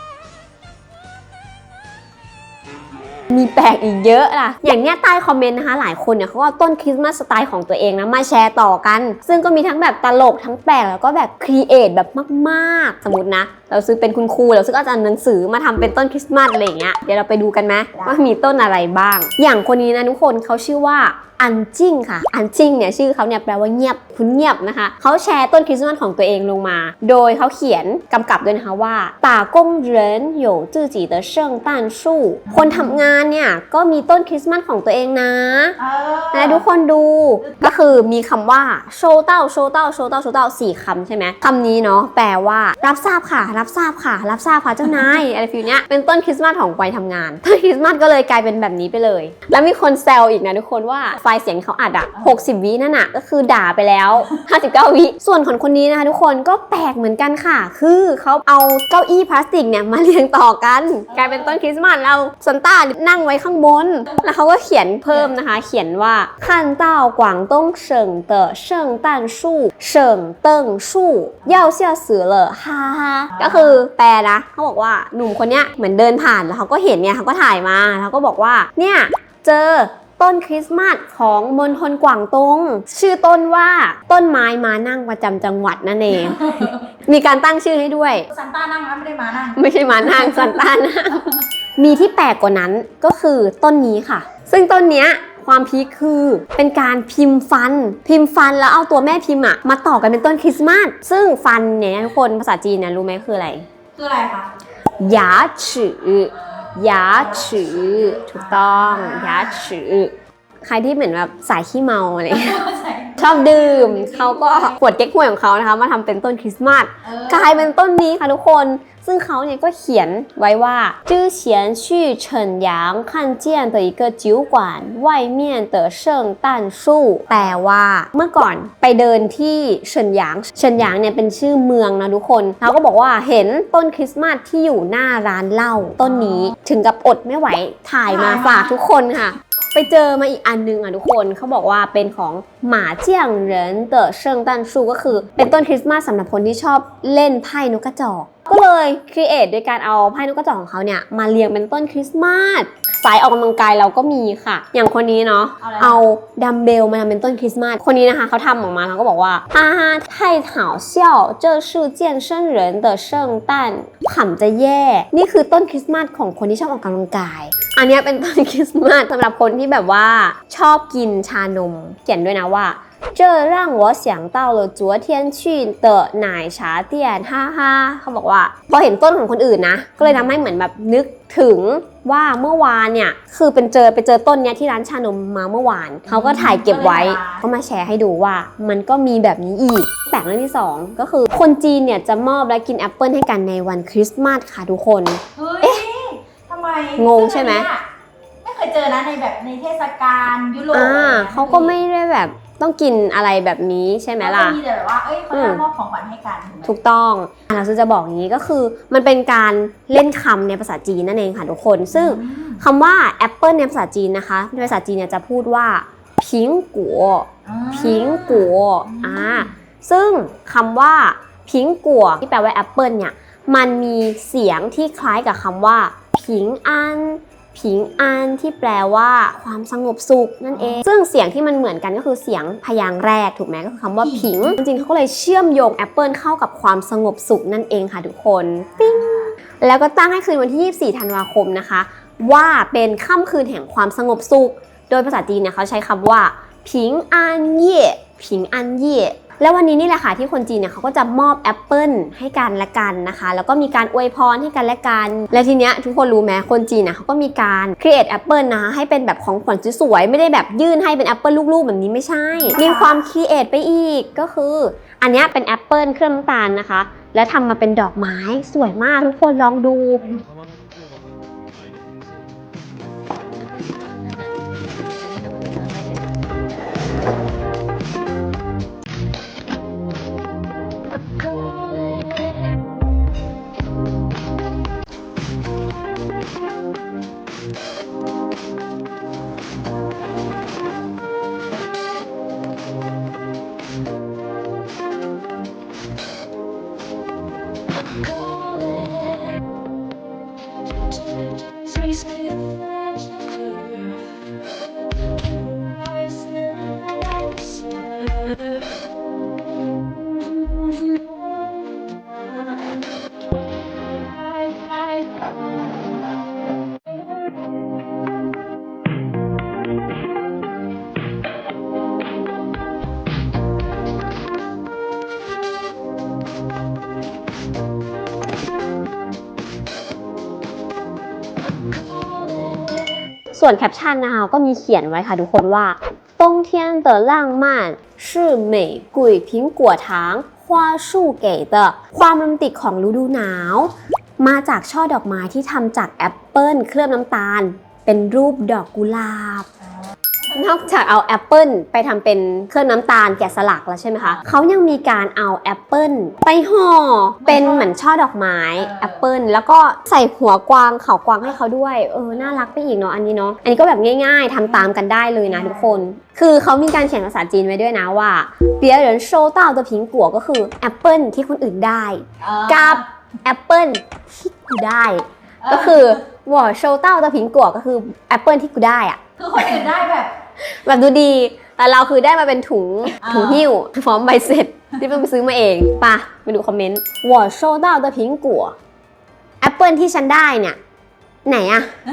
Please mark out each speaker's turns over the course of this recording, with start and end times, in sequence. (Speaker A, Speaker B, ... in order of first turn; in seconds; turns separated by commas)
Speaker A: 3.3-35.8, Speaker B: 32.5-33.0, Speaker B: 35.8-36.6, Speaker A: 36.3-88.3, Speaker B: 61.1-61.5, Speaker B: 86.1-86.8, Speaker B: 88.3-90.5, Speaker A: 89.6-103.6, Speaker B: 104.0-104.5, Speaker A: 105.0-112.6, Speaker B: 107.1-109.7, Speaker B: 112.3-114.8, Speaker A: 113.2-195.8, Speaker B: 117.0-117.7, Speaker B: 136.0-136.5, Speaker B: 138.1-138.7, Speaker B: 155.6-156.0, Speaker B: 186.1-187.4, Speaker B: 195.4-197.8, Speaker A: 197.0-197.7, Speaker B: 198.4-201.8, Speaker A: 200.7-204.6, Speaker B: 204.2-206.8, Speaker A: 205.3-205.6, Speaker A: 206.6-270.1, Speaker B: 211.9-212.6, Speaker B: 217.5-219.5, Speaker B: 230.6-230.8, Speaker B: 234.0-234.6, Speaker B: 238.8-239.3, Speaker B: 262.4-263.0, Speaker A: 333.3-349.5, Speaker A: 350.3-379.6, Speaker B: 357.2-357.7, Speaker B: 358.6-358.9, Speaker B: 365.3-365.8, Speaker B: 372.2-372.8, Speaker B: 375.4-376.0, Speaker B: 379.2-380.1, Speaker A: 380.4-388.6, Speaker B: 383.0-383.4, Speaker A: 389.4-390.6, Speaker A: 391.3-391.7